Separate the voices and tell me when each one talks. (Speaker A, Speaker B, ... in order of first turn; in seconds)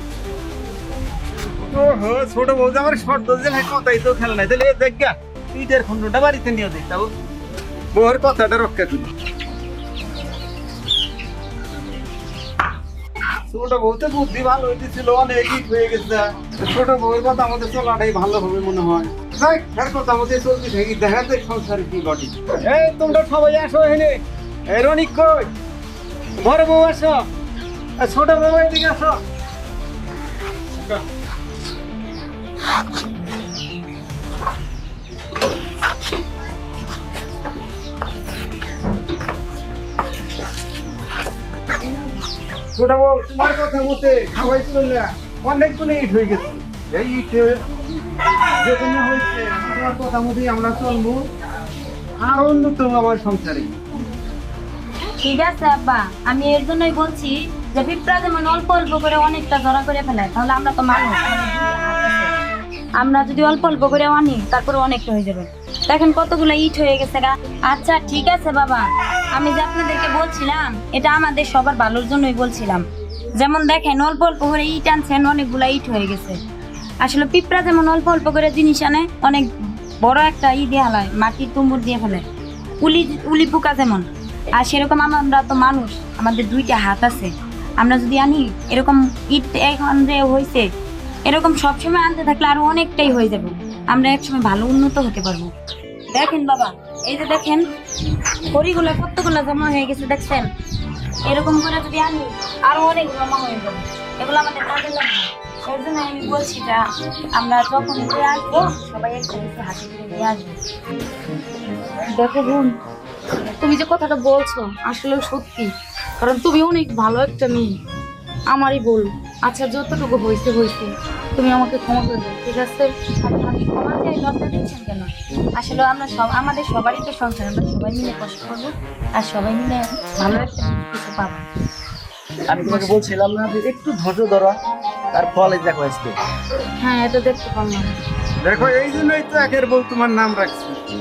Speaker A: 1.7-7.1, 7.9-9.1, 13.5-25.5, 26.4-27.2, 28.0-29.2, 42.8-47.6, 48.6-51.2, 52.2-53.7, 138.4-140.8
Speaker B: 55.2-62.4, 63.0-72.8, 73.3-76.4, 77.0-79.5, 80.0-82.2, 82.8-90.7, 91.3-95.5, 96.1-97.7, 98.5-100.5, 101.2-110.6, 123.2-131.4, 132.7-133.0, 136.8-137.9
Speaker C: 112.2-112.7, 113.6-117.8, 118.5-122.9
Speaker D: 132.5-134.6, 135.1-136.2